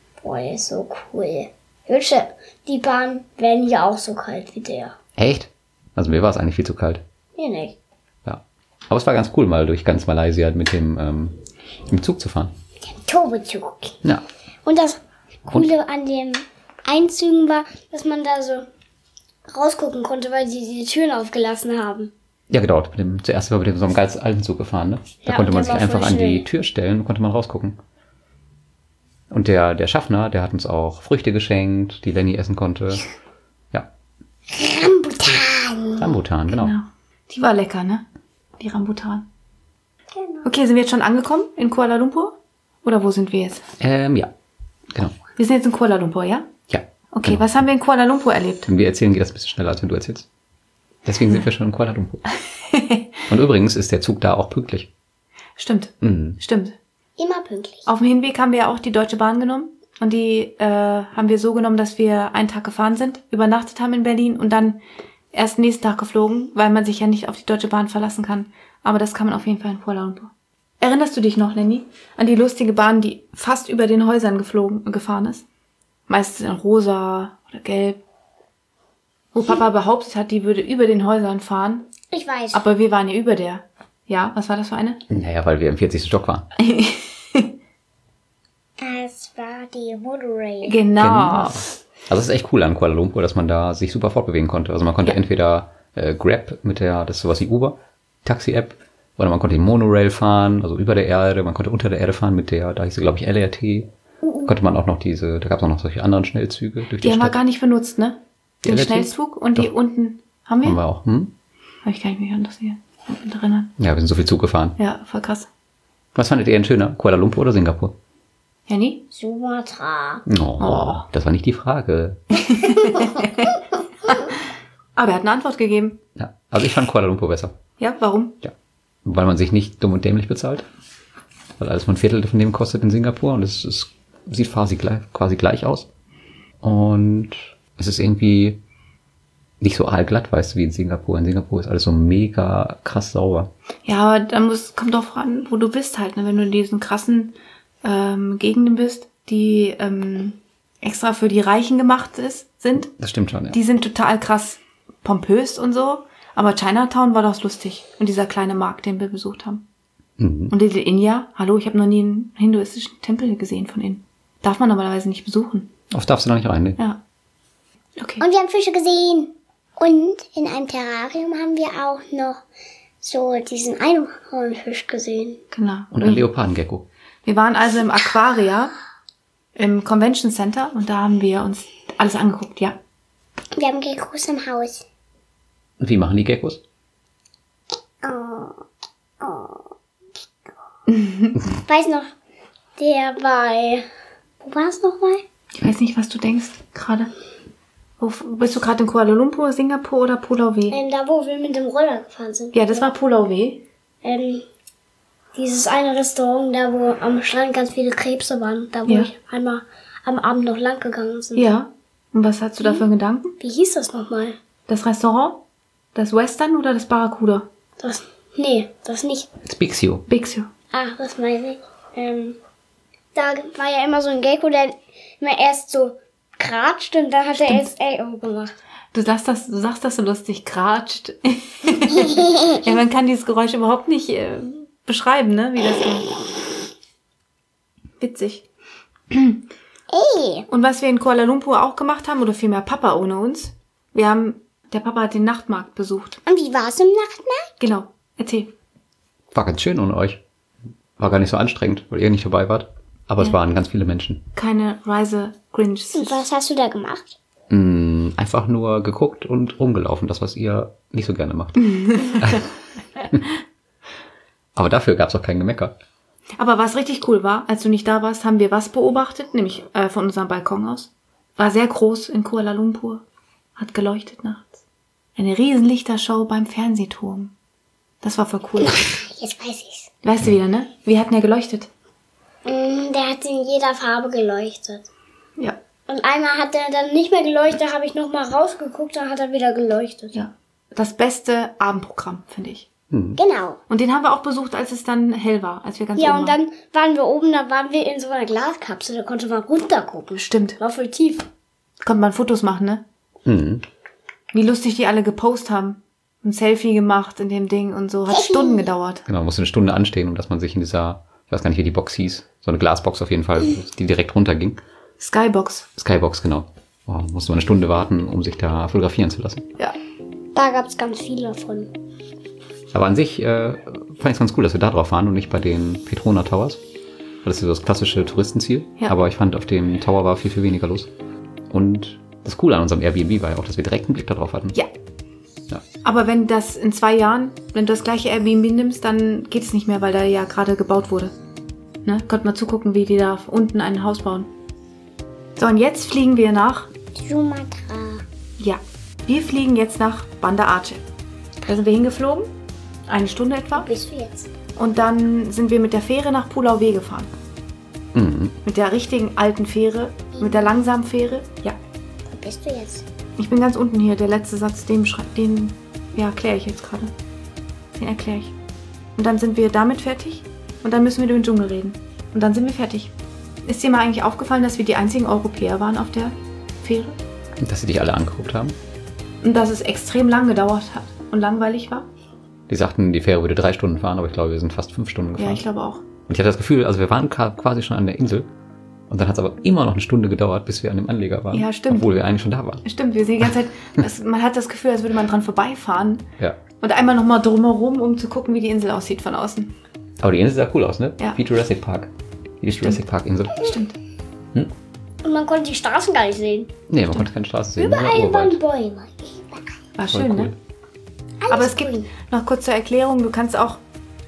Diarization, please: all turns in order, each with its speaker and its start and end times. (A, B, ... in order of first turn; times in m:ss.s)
0:00.2-0:05.0 A
0:05.2-0:07.0 B
0:07.4-0:07.8 A
0:08.2-0:12.5 B
0:12.9-0:14.0 A
0:14.6-0:18.7 A
0:19.5-0:22.1 A
0:22.5-0:27.8 B
0:25.2-0:26.5 A
0:29.3-0:33.1 B
0:34.5-0:36.2 A
0:36.0-0:36.8 B
0:36.6-0:38.0 C
0:38.6-0:39.3 C
0:40.1-0:40.5 A
0:40.4-0:43.6 C
0:43.8-0:44.3 B
0:45.4-0:46.5 C
0:46.7-0:47.5 B
0:47.1-0:48.7 C
0:48.7-0:50.3 B
0:51.0-0:52.3 B
0:52.7-0:53.0 C
0:53.3-0:54.9 B
0:55.6-0:56.8 C
0:56.0-0:56.4 B
0:57.2-0:57.9 A
0:57.9-1:04.8 C
1:05.3-1:15.4 C
1:16.1-1:18.0 C
1:19.3-1:21.8 C
1:22.1-1:22.7 A
1:22.5-1:25.0 C
1:25.1-1:26.5 B
1:26.6-1:27.5 C
1:28.8-1:30.8 A
1:30.6-1:31.7 C
1:31.0-1:43.9 B
1:44.4-1:47.4 B
1:47.0-1:50.8 C
1:48.6-1:49.7 B
1:50.6-1:51.3 B
1:51.8-1:53.7 C
1:53.8-1:54.8 B
1:54.8-1:55.5 C
1:56.2-1:58.0 B
1:58.7-1:59.0 C
1:59.1-2:00.2 A
2:00.3-2:02.5 B
2:00.6-2:01.1 C
2:02.5-2:03.6 C
2:05.0-2:06.0 C
2:06.2-2:07.5 B
2:07.8-2:08.4 C
2:09.0-2:10.6 B
2:11.6-2:15.9 B
2:16.6-2:18.6 B
2:19.6-2:23.5 B
2:23.9-2:32.9 C
2:33.0-2:33.6 B
2:33.5-2:39.6 C
2:40.2-2:40.6 B
2:40.5-2:45.7 C
2:45.9-2:46.8 B
2:48.0-2:48.2 C
2:48.2-2:52.4 A
2:53.0-2:55.4 A
2:55.5-2:56.2 C
2:55.9-2:56.9 B
2:57.2-2:58.7 C
2:59.6-3:02.8 C
3:03.6-3:04.8 A
3:05.8-3:06.6 B
3:08.0-3:08.6 A
3:09.2-3:09.7 A
3:10.9-3:11.4 C
3:11.6-3:12.1 A
3:12.8-3:13.8 A
3:14.4-3:15.2 A
3:15.6-3:17.1 C
3:18.0-3:20.8 C
3:20.7-3:22.9 A
3:22.5-3:23.6 C
3:24.0-3:24.5 A
3:25.4-3:31.5 A
3:31.4-3:33.4 C
3:33.4-3:34.4 A
3:34.7-3:35.4 C
3:36.0-3:37.5 C
3:37.8-3:39.3 A
3:39.5-3:40.0 B
3:40.1-3:40.5 C
3:40.7-3:42.4 A
3:43.2-3:48.6 A
3:47.4-3:47.7 C
3:48.9-3:56.1 C
3:58.0-3:58.4 C
3:59.1-3:59.4 C
3:59.9-4:00.5 A
4:00.5-4:06.2 C
4:06.3-4:07.5 A
4:07.6-4:08.5 C
4:09.3-4:10.2 B
4:11.0-4:14.2 B
4:14.4-4:16.2 C
4:15.9-4:17.2 A
4:17.5-4:22.5 B
4:21.7-4:22.2 C
4:24.6-4:25.8 B
4:26.4-4:33.0 C
4:33.6-4:34.6 C
4:35.2-4:37.3 C
4:38.0-4:38.8 C
4:38.6-4:39.9 A
4:40.0-4:41.7 C
4:42.5-4:44.9 A
4:45.9-4:50.2 A
4:50.1-4:52.7 C
4:52.9-4:53.2 B
4:53.2-4:53.6 A
4:53.7-4:56.4 C
4:56.0-5:01.3 A
5:00.2-5:00.6 C
5:01.8-5:02.8 C
5:03.3-5:03.6 B
5:04.3-5:09.1 C
5:08.1-5:08.7 A
5:09.1-5:14.6 B
5:15.0-5:15.7 C
5:15.8-5:19.5 B
5:20.4-5:21.7 A
5:22.7-5:26.6 B
5:27.2-5:30.9 B
5:31.5-5:34.6 B
5:35.8-5:41.1 C
5:41.8-5:44.3 C
5:45.4-5:46.7 C
5:47.0-5:48.0 A
5:48.4-5:50.8 C
5:51.5-5:52.3 C
5:52.9-5:53.7 C
5:53.6-5:54.3 A
5:54.6-5:57.1 C
5:57.9-5:58.4 B
5:58.4-6:01.6 C
6:00.2-6:00.6 A
6:02.1-6:02.8 A
6:03.2-6:06.9 C
6:07.7-6:08.3 C
6:09.0-6:12.9 C
6:13.5-6:17.0 C
6:17.4-6:18.6 B
6:19.2-6:21.9 C
6:22.5-6:25.4 B
6:25.2-6:25.8 C
6:26.1-6:28.3 B
6:28.9-6:32.6 B
6:31.3-6:32.0 C
6:32.6-6:36.1 C
6:36.6-6:39.5 C
6:40.0-6:43.5 B
6:43.4-6:43.7 C
6:45.0-6:46.5 A
6:46.7-6:48.4 B
6:47.6-6:49.5 A
6:49.8-6:50.3 C
6:49.9-6:50.4 B
6:51.2-6:51.9 A
6:51.3-6:53.6 C